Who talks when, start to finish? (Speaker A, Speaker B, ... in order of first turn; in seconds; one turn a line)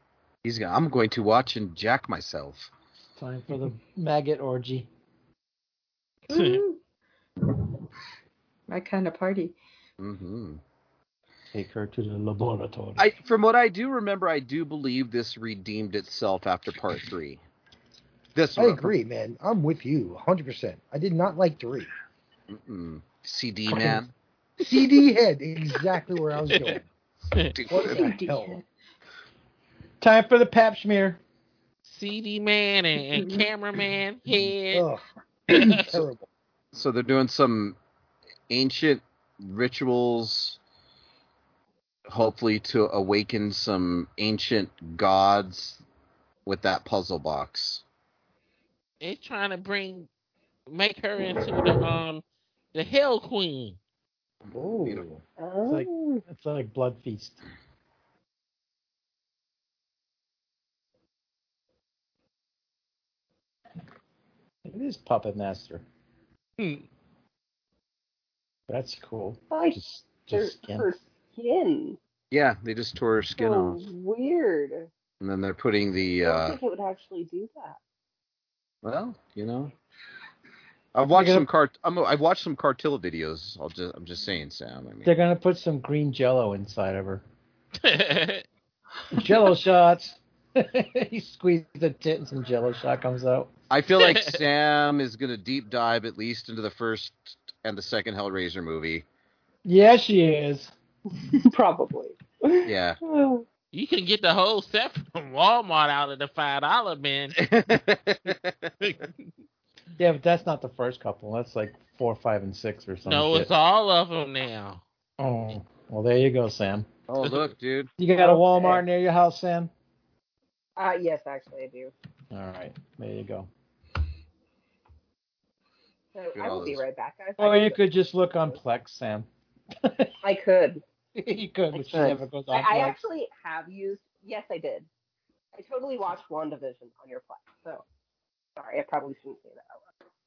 Speaker A: 0.4-2.7
Speaker B: 3.2-4.9
Speaker C: 6.3-6.8
Speaker D: 6.3-6.6
Speaker C: 8.7-9.6
Speaker A: 10.0-10.6
Speaker B: 11.5-13.1
Speaker A: 13.0-17.4
Speaker A: 18.4-18.9
Speaker E: 18.6-21.9
Speaker A: 22.5-24.1
Speaker E: 24.6-26.9
Speaker D: 26.5-26.8
Speaker A: 27.5-27.9
Speaker E: 27.7-28.6
Speaker C: 27.7-28.6
Speaker B: 30.0-31.2
Speaker D: 31.9-34.9
Speaker E: 34.7-36.3
Speaker D: 35.5-36.0
Speaker A: 36.7-37.8
Speaker A: 38.5-40.6
Speaker A: 42.1-45.8
Speaker A: 46.5-47.8
Speaker D: 49.0-50.1
Speaker D: 50.7-52.2
Speaker D: 52.7-53.8
Speaker A: 54.4-55.1
Speaker E: 54.5-55.2
Speaker F: 55.4-56.2
Speaker B: 55.7-57.4
Speaker B: 64.7-65.8
Speaker D: 66.6-66.8
Speaker B: 68.7-70.9
Speaker F: 69.5-72.0
Speaker A: 72.3-73.8
Speaker F: 73.4-74.9
Speaker A: 75.2-76.6
Speaker F: 76.2-77.8
Speaker A: 78.8-79.7
Speaker A: 80.9-85.1
Speaker B: 81.1-81.5
Speaker B: 85.0-87.2
Speaker D: 87.8-88.5
Speaker B: 89.1-93.5
Speaker A: 93.7-99.0
Speaker D: 94.0-94.4
Speaker B: 99.7-100.7
Speaker F: 101.3-103.5
Speaker A: 102.7-103.0
Speaker D: 103.7-107.4
Speaker A: 107.3-108.7
Speaker D: 108.8-109.1
Speaker B: 110.0-113.5
Speaker D: 113.0-114.8
Speaker B: 115.2-116.9
Speaker A: 117.1-117.9
Speaker D: 117.2-117.5
Speaker B: 118.0-119.7
Speaker F: 118.2-118.8
Speaker F: 120.8-121.9
Speaker B: 122.3-123.5
Speaker F: 126.1-127.9
Speaker A: 126.3-126.8
Speaker B: 127.4-129.3
Speaker B: 129.8-130.1
Speaker F: 130.2-130.8
Speaker B: 131.2-133.0
Speaker F: 131.8-134.9
Speaker F: 135.6-137.8
Speaker F: 138.6-139.8